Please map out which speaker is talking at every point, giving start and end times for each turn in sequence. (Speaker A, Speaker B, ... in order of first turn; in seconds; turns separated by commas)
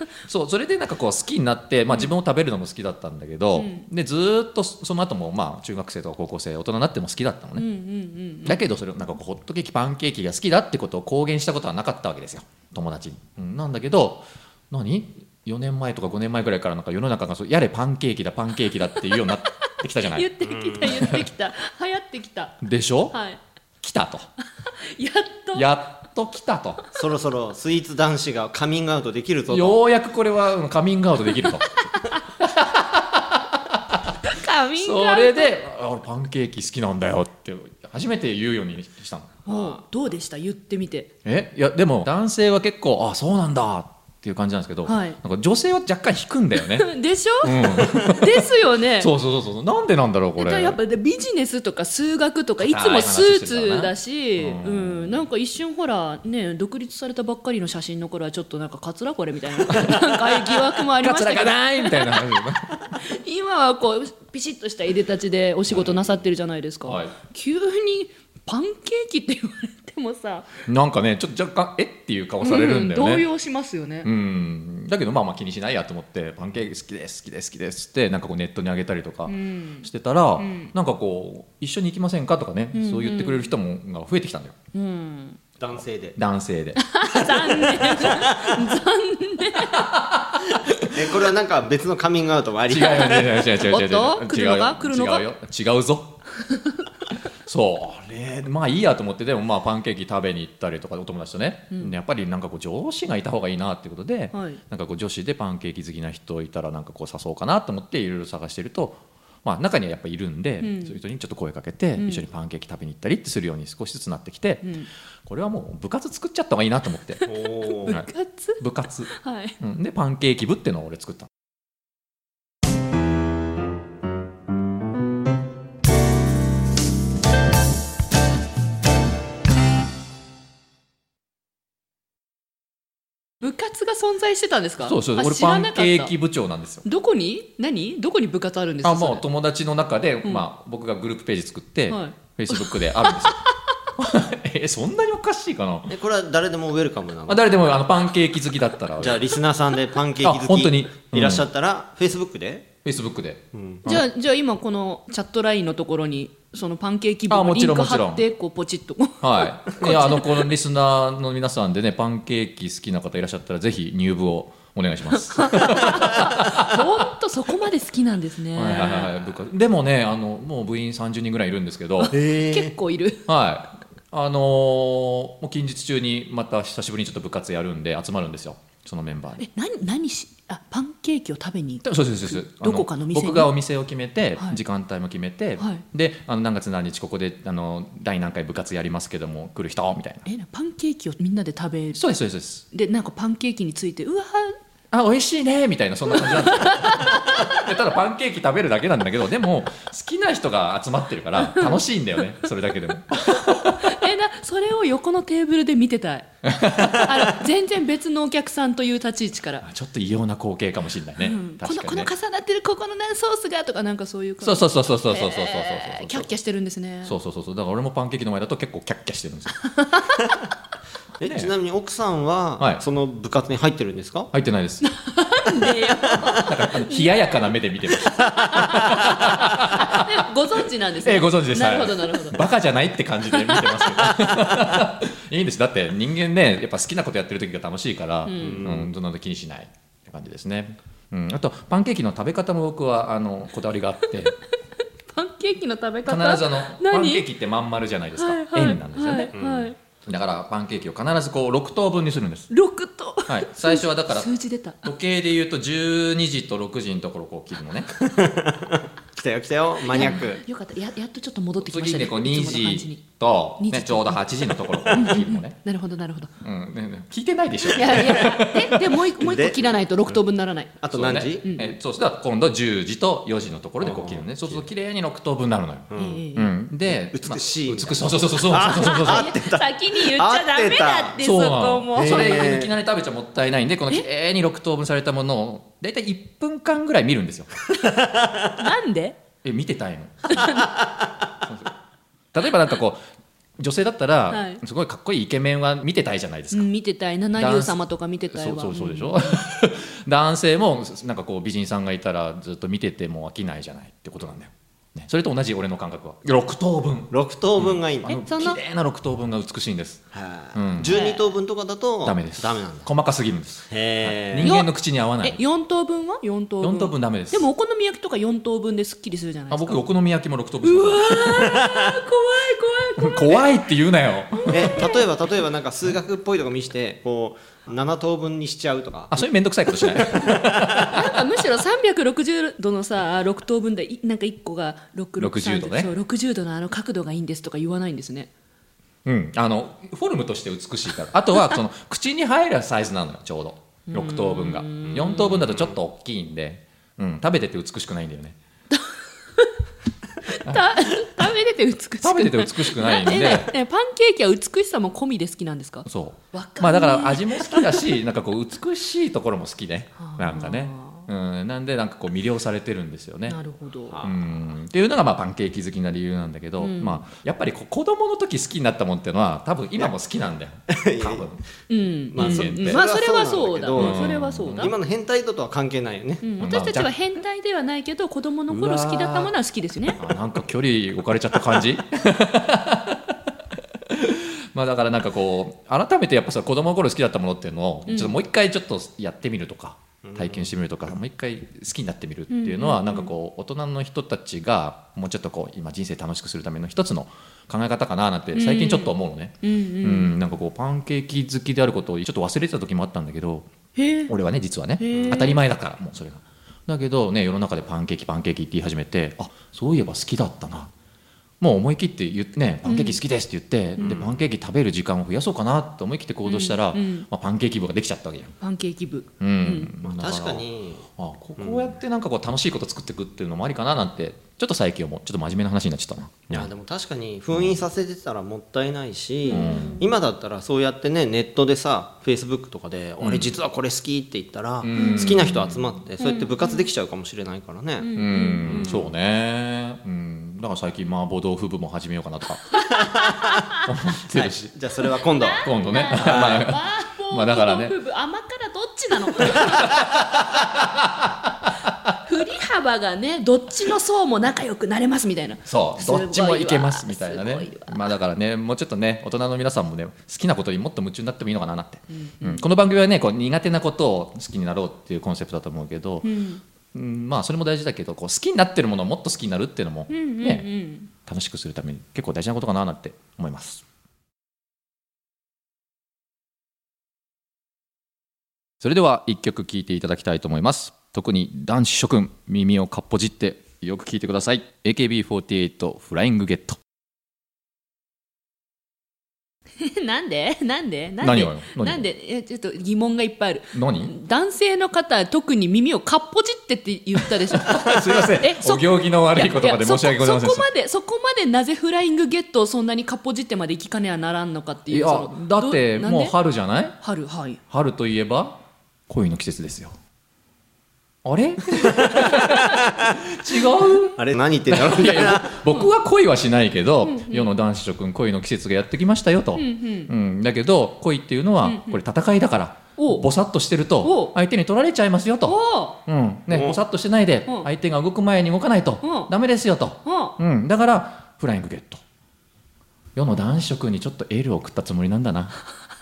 Speaker A: 0.2-7.7, Speaker B: 3.5-3.9, Speaker B: 7.6-8.6, Speaker A: 8.4-20.3, Speaker B: 19.0-19.4, Speaker B: 20.0-23.4, Speaker C: 20.4-21.1, Speaker A: 20.8-21.3, Speaker A: 22.6-23.2, Speaker A: 23.8-24.3, Speaker B: 24.6-25.7, Speaker A: 25.5-26.8, Speaker C: 26.9-29.8, Speaker A: 29.5-31.8, Speaker B: 31.6-32.1, Speaker A: 32.4-34.0, Speaker B: 34.2-35.5, Speaker A: 34.8-39.5, Speaker B: 39.5-41.1, Speaker A: 41.2-46.9, Speaker B: 44.9-45.2, Speaker B: 46.6-49.1, Speaker A: 47.4-50.8, Speaker B: 50.4-70.6, Speaker A: 52.6-55.2, Speaker A: 59.6-62.8, Speaker C: 65.9-66.2, Speaker A: 66.8-67.2, Speaker A: 70.7-73.3, Speaker B: 72.4-74.1, Speaker A: 74.0-84.5, Speaker B: 79.3-80.7, Speaker B: 82.7-83.5, Speaker B: 84.7-85.4, Speaker C: 85.6-86.2, Speaker A: 86.2-86.8, Speaker B: 86.8-89.9, Speaker C: 87.2-88.7, Speaker A: 89.7-91.3, Speaker C: 90.9-93.5, Speaker A: 92.7-96.2, Speaker B: 93.3-95.3, Speaker A: 97.5-114.7, Speaker B: 104.3-104.6, Speaker B: 110.6-111.0, Speaker B: 112.0-112.3, Speaker B: 114.6-114.9, Speaker A: 115.2-117.2, Speaker C: 117.3-118.0, Speaker B: 117.4-119.6, Speaker A: 117.9-121.3, Speaker B: 133.4-136.1, Speaker A: 134.8-136.9, Speaker B: 136.8-139.3, Speaker A: 138.8-143.4, Speaker B: 141.9-143.5, Speaker A: 144.0-145.9, Speaker C: 145.9-147.5, Speaker A: 147.3-149.3, Speaker C: 149.0-152.7, Speaker A: 150.2-151.5, Speaker A: 152.8-154.0, Speaker C: 153.5-153.9, Speaker B: 153.8-160.5, Speaker A: 157.3-158.3, Speaker A: 159.2-166.8, Speaker B: 165.3-169.2, Speaker A: 168.5-172.2, Speaker C: 172.1-172.8, Speaker B: 172.1-173.2, Speaker A: 173.3-179.4, Speaker B: 179.4-183.5, Speaker A: 181.8-190.2, Speaker B: 185.6-185.8, Speaker B: 190.2-192.0, Speaker A: 191.9-192.7, Speaker B: 192.7-194.6, Speaker A: 194.9-204.0, Speaker B: 196.1-197.6, Speaker B: 201.4-201.8, Speaker B: 203.6-209.7, Speaker A: 206.4-207.2, Speaker A: 209.6-212.1, Speaker B: 211.2-217.2, Speaker A: 214.4-216.3, Speaker A: 217.1-219.6, Speaker B: 219.7-220.3, Speaker C: 221.2-224.3, Speaker A: 221.2-221.5, Speaker A: 224.3-224.9, Speaker B: 224.8-227.5, Speaker A: 226.2-230.2, Speaker B: 228.2-232.4, Speaker C: 228.6-228.9, Speaker A: 231.0-244.3, Speaker B: 233.3-234.3, Speaker B: 238.2-238.7, Speaker C: 238.4-238.9, Speaker B: 245.1-247.2, Speaker A: 246.0-249.3, Speaker B: 248.2-249.8, Speaker C: 249.3-249.7, Speaker A: 250.1-252.5, Speaker B: 252.5-254.9, Speaker A: 253.3-254.3, Speaker A: 254.8-257.9, Speaker C: 258.1-260.4, Speaker B: 259.9-263.0, Speaker A: 261.6-265.6, Speaker B: 263.6-264.2, Speaker B: 264.9-266.3, Speaker A: 266.4-268.9, Speaker B: 267.7-270.7, Speaker C: 269.2-270.2, Speaker C: 270.8-271.5, Speaker A: 270.9-279.3, Speaker B: 271.4-271.8, Speaker C: 273.8-274.7, Speaker C: 275.9-276.3, Speaker B: 275.9-276.5, Speaker C: 276.9-281.2, Speaker B: 278.7-282.6, Speaker A: 281.2-287.5, Speaker C: 281.9-282.7, Speaker C: 287.8-288.4, Speaker B: 288.6-289.2, Speaker A: 289.4-290.7, Speaker B: 290.3-290.8, Speaker A: 291.4-291.7, Speaker A: 292.3-293.0, Speaker A: 293.6-296.7, Speaker B: 294.3-294.6, Speaker B: 296.5-299.4, Speaker A: 297.4-297.8, Speaker A: 298.3-311.0, Speaker C: 307.1-308.2, Speaker B: 308.1-308.6, Speaker C: 310.1-312.9, Speaker B: 310.9-311.3, Speaker A: 312.1-315.4, Speaker C: 313.7-314.5, Speaker B: 314.4-319.8, Speaker A: 316.6-317.5, Speaker A: 319.5-321.6, Speaker B: 320.6-323.5, Speaker C: 321.6-321.9, Speaker A: 323.0-324.7, Speaker B: 324.3-325.1, Speaker C: 324.5-331.0, Speaker A: 329.1-331.2, Speaker B: 330.9-338.3, Speaker A: 335.2-335.9, Speaker A: 339.1-348.4, Speaker B: 343.9-345.4, Speaker C: 344.9-345.7, Speaker B: 348.7-349.5, Speaker B: 350.2-357.9, Speaker A: 350.4-350.8, Speaker A: 352.0-353.5, Speaker A: 355.9-363.4, Speaker B: 360.0-361.1, Speaker B: 363.3-364.0, Speaker C: 363.9-364.4, Speaker A: 364.0-371.4, Speaker B: 366.6-367.1, Speaker C: 370.7-371.4, Speaker B: 371.7-374.8, Speaker C: 372.1-376.2, Speaker A: 372.2-372.8, Speaker A: 373.8-374.7, Speaker B: 376.2-380.0, Speaker A: 376.4-376.9, Speaker A: 378.5-379.3, Speaker A: 379.9-383.2, Speaker A: 383.9-403.5, Speaker B: 387.9-388.2, Speaker C: 390.1-390.6, Speaker B: 392.3-393.1, Speaker B: 398.3-400.1, Speaker B: 403.8-404.1, Speaker A: 404.1-410.7, Speaker B: 404.8-405.4, Speaker C: 404.9-405.2, Speaker A: 411.4-418.3, Speaker B: 412.6-413.0, Speaker C: 413.8-414.2, Speaker B: 416.2-417.1, Speaker B: 418.4-419.7, Speaker A: 419.2-420.5, Speaker C: 419.8-420.9, Speaker A: 421.0-426.5, Speaker C: 421.4-421.8, Speaker C: 426.3-438.9, Speaker A: 427.3-427.6, Speaker B: 429.3-429.8, Speaker A: 429.3-429.8, Speaker A: 433.0-433.3, Speaker A: 434.6-435.6, Speaker B: 434.7-435.3, Speaker B: 436.0-436.7, Speaker B: 437.8-438.8, Speaker A: 437.9-442.6, Speaker B: 442.6-443.3, Speaker C: 442.9-443.3, Speaker A: 443.6-444.4, Speaker C: 444.1-446.5, Speaker B: 445.1-450.0, Speaker A: 445.4-447.8, Speaker A: 449.7-451.3, Speaker B: 452.0-457.9, Speaker A: 455.5-466.2, Speaker B: 461.9-462.5, Speaker B: 466.0-466.4, Speaker A: 466.7-473.6, Speaker B: 469.9-470.9, Speaker A: 478.6-486.6, Speaker B: 489.6-506.1, Speaker A: 491.0-491.9, Speaker A: 493.5-493.9, Speaker A: 497.3-500.5, Speaker A: 504.7-506.8, Speaker B: 506.8-507.4, Speaker A: 507.5-509.8, Speaker A: 511.0-531.8, Speaker C: 511.8-512.8, Speaker C: 513.6-515.4, Speaker B: 516.8-517.3, Speaker B: 519.4-519.9, Speaker B: 521.4-521.8, Speaker B: 522.8-523.1, Speaker B: 523.8-524.1, Speaker B: 525.2-525.8, Speaker C: 526.3-526.6, Speaker B: 528.8-529.1, Speaker B: 529.9-530.2, Speaker A: 533.0-535.4